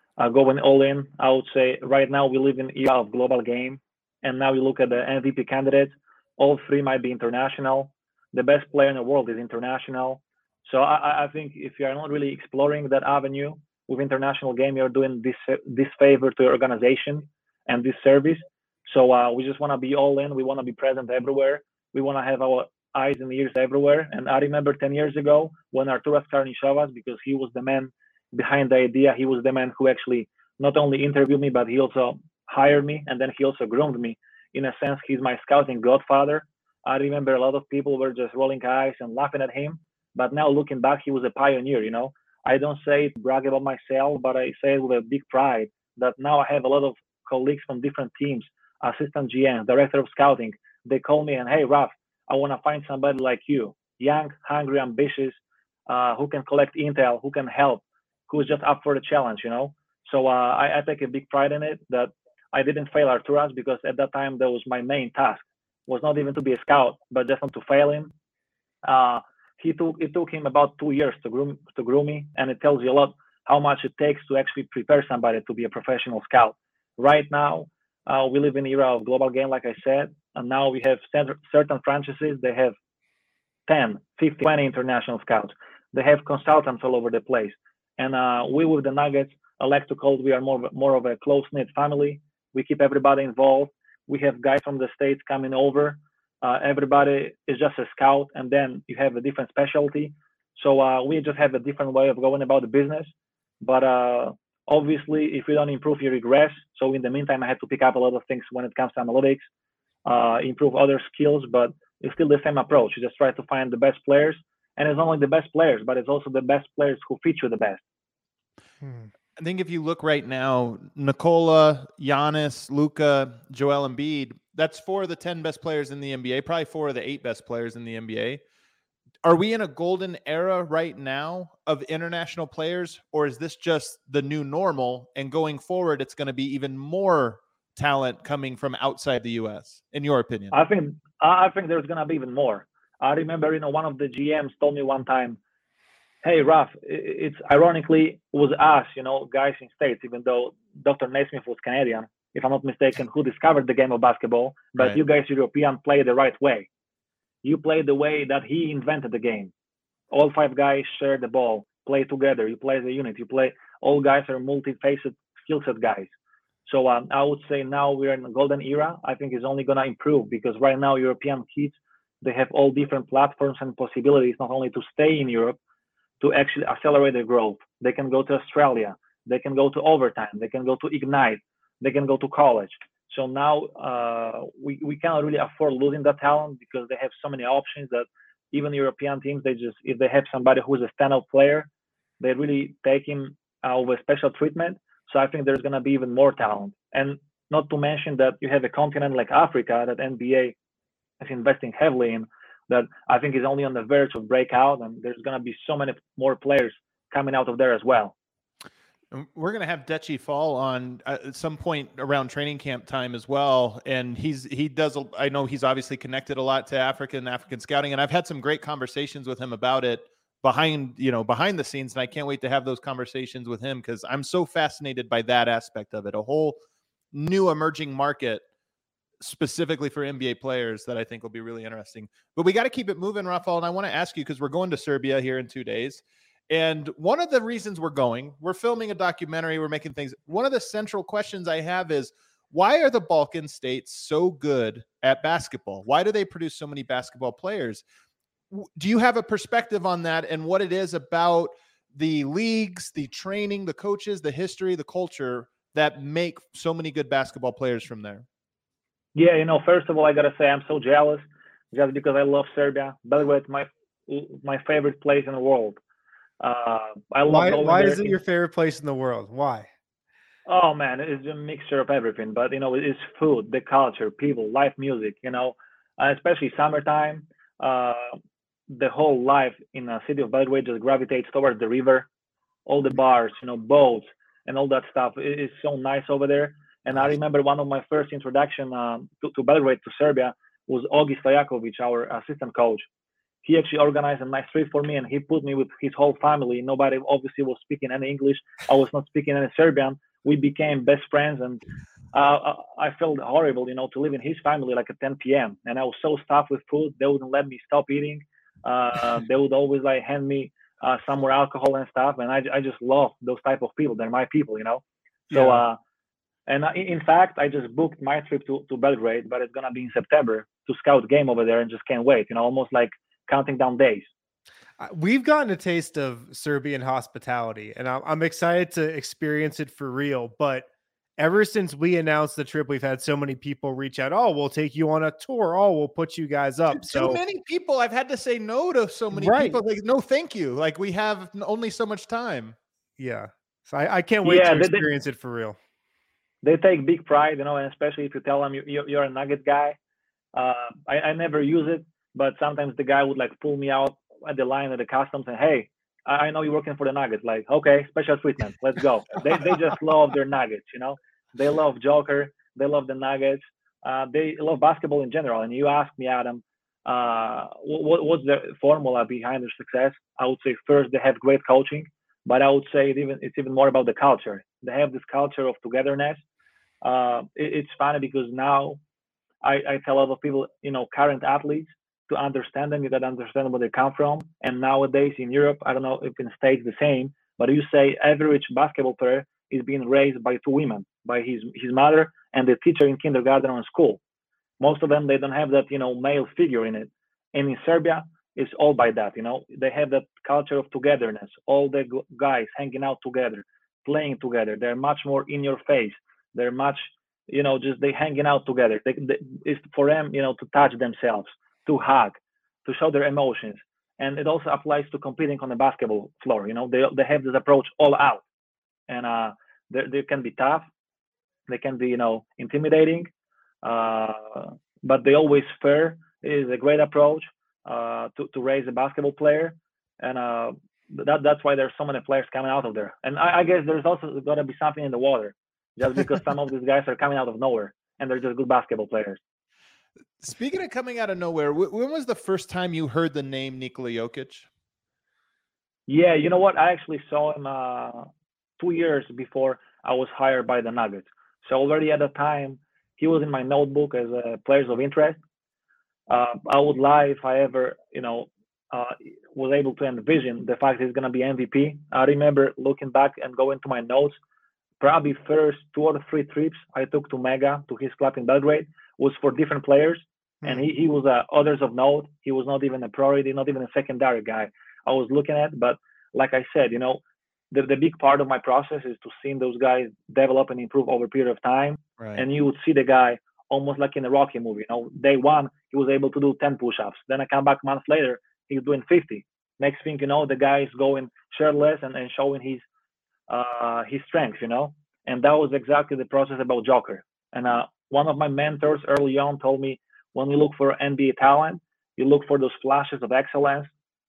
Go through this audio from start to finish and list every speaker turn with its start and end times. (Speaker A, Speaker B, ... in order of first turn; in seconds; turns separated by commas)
Speaker A: 0.2-55.4, Speaker A: 55.9-68.1, Speaker A: 68.8-82.7, Speaker A: 83.7-109.4, Speaker A: 110.0-117.8, Speaker B: 118.8-119.1, Speaker C: 119.4-128.4, Speaker C: 129.2-140.5, Speaker A: 140.5-145.4, Speaker A: 146.2-156.7, Speaker A: 157.4-159.5, Speaker A: 160.1-166.1, Speaker A: 166.7-175.6, Speaker A: 176.2-191.7, Speaker A: 192.2-200.5, Speaker A: 201.2-208.1, Speaker C: 209.1-226.6, Speaker C: 227.1-228.4, Speaker C: 229.2-247.8, Speaker C: 248.5-258.2, Speaker A: 259.1-265.8, Speaker A: 266.4-268.1, Speaker B: 267.3-269.7, Speaker A: 270.4-278.2, Speaker A: 278.7-282.1, Speaker A: 282.6-292.8, Speaker A: 293.4-301.6, Speaker A: 302.1-315.8, Speaker B: 315.3-315.6, Speaker A: 316.5-324.1, Speaker B: 324.8-330.7, Speaker B: 331.2-337.2, Speaker C: 336.7-342.6, Speaker B: 339.1-339.6, Speaker B: 343.0-345.6, Speaker A: 344.2-344.9, Speaker A: 346.4-349.8, Speaker A: 350.3-376.2, Speaker A: 376.8-378.8, Speaker A: 379.4-394.0, Speaker A: 394.6-418.2, Speaker A: 418.9-420.6, Speaker A: 421.5-423.1, Speaker A: 423.6-439.2, Speaker C: 440.2-444.5, Speaker A: 445.9-455.2, Speaker A: 456.1-464.1, Speaker A: 464.8-477.0, Speaker A: 477.5-492.6, Speaker C: 482.0-482.2, Speaker A: 493.3-503.7